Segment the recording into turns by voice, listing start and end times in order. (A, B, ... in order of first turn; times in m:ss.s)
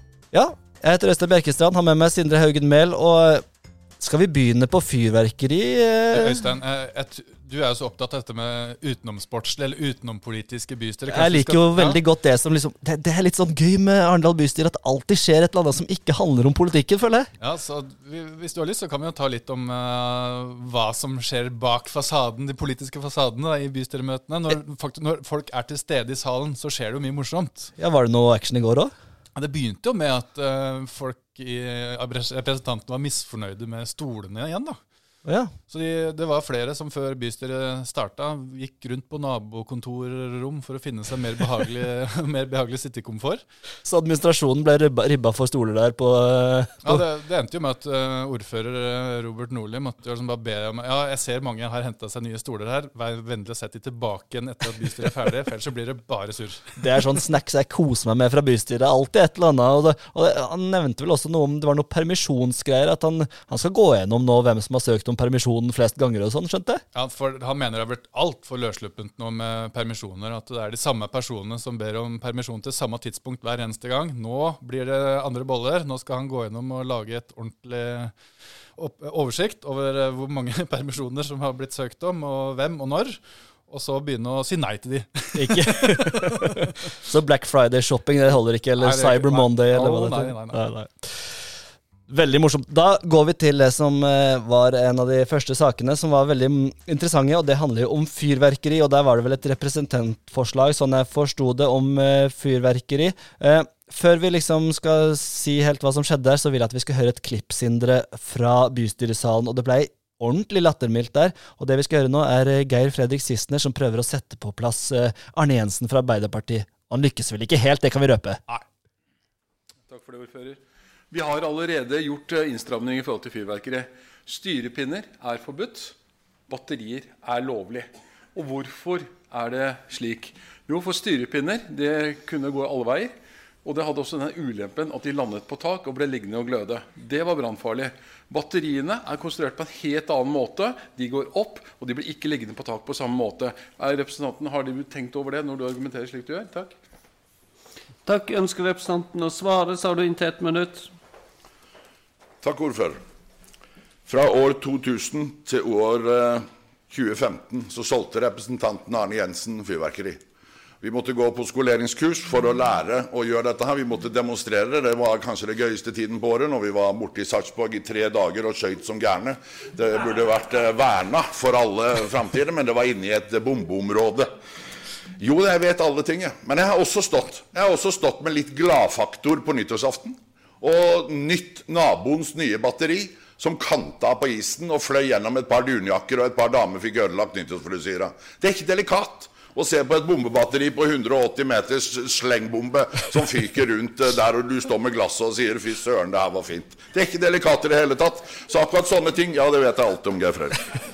0:00.3-0:03.4 A
0:04.0-0:06.4 A
0:06.1-0:12.0 B
0:11.1-0:17.3 A
0:17.4-0:27.7 B
0:27.8-0:28.9 A
0:29.4-0:34.8 B
0:35.2-0:35.5 A
0:35.7-0:43.4 B
0:43.8-0:47.0 A
0:46.8-0:56.8 B
0:56.8-1:06.8 A
1:06.9-1:18.2 B
1:18.8-1:26.7 B
1:25.4-1:31.6 A
1:28.8-1:30.6 B
1:32.1-1:58.4 A
1:59.9-2:06.0 C
2:06.5-2:26.7 C
2:28.1-2:30.9 D
2:32.4-2:33.0 E
2:34.1-2:40.2 E
2:40.8-2:54.3 E
2:55.2-3:20.8 E